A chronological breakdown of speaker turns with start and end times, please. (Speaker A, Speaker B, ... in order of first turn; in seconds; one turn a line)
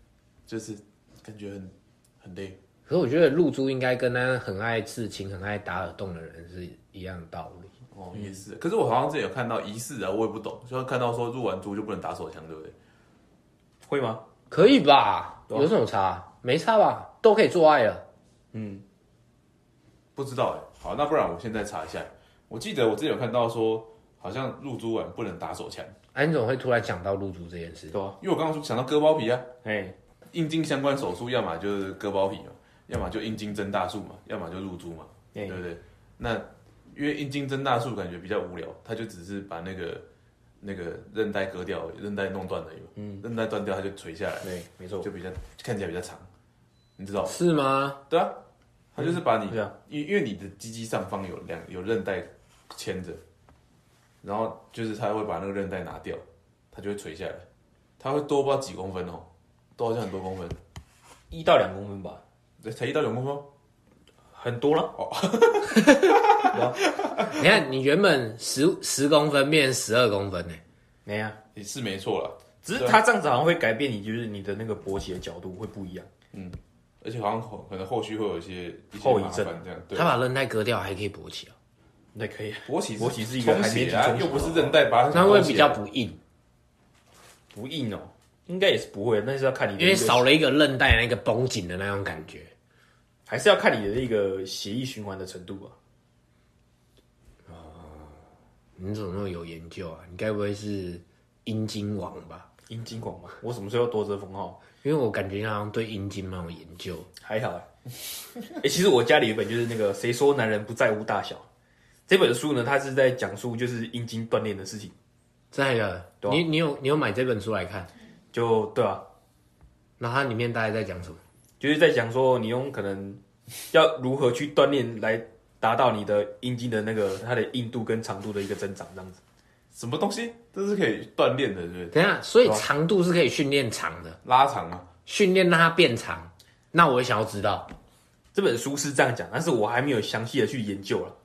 Speaker A: 0.5-2.6
Speaker B: 2.9-7.7
Speaker A: 7.9-12.7
Speaker C: 13.9-14.2
Speaker B: 14.5-18.0
Speaker C: 18.5-18.8
Speaker A: 20.1-25.9
Speaker B: 26.1-28.0
Speaker A: 28.2-29.5
Speaker C: 29.6-29.9
Speaker A: 30.3-40.0
Speaker C: 35.3-35.6
Speaker A: 40.6-44.5
Speaker C: 43.0-43.2
Speaker C: 44.4-45.1
Speaker A: 45.0-46.3
Speaker A: 47.0-47.3
Speaker B: 47.3-48.0
Speaker A: 48.1-48.4
Speaker A: 48.9-53.2
Speaker C: 49.0-49.7
Speaker A: 54.2-57.5
Speaker A: 58.0-60.6
Speaker C: 61.3-62.2
Speaker A: 62.6-63.5
Speaker C: 64.3-64.9
Speaker A: 64.9-67.4
Speaker C: 66.5-66.8
Speaker B: 67.3-70.6
Speaker C: 71.0-71.4
Speaker A: 71.5-73.0
Speaker C: 72.6-76.1
Speaker A: 76.3-80.1
Speaker C: 79.0-79.5
Speaker B: 79.9-81.5
Speaker C: 82.1-84.7
Speaker A: 82.7-85.8
Speaker B: 85.1-86.2
Speaker C: 87.5-90.3
Speaker B: 89.8-92.5
Speaker C: 93.3-95.7
Speaker B: 97.5-98.2
Speaker B: 98.8-102.5
Speaker C: 102.7-104.6
Speaker B: 104.8-107.1
Speaker C: 107.2-107.7
Speaker C: 108.5-111.4
Speaker C: 112.1-114.9
Speaker B: 115.5-117.9
Speaker C: 118.3-119.0
Speaker B: 120.0-121.2
Speaker C: 121.6-129.2
Speaker A: 129.7-132.6
Speaker B: 131.9-134.2
Speaker A: 134.2-134.9
Speaker B: 135.1-137.7
Speaker C: 138.3-141.1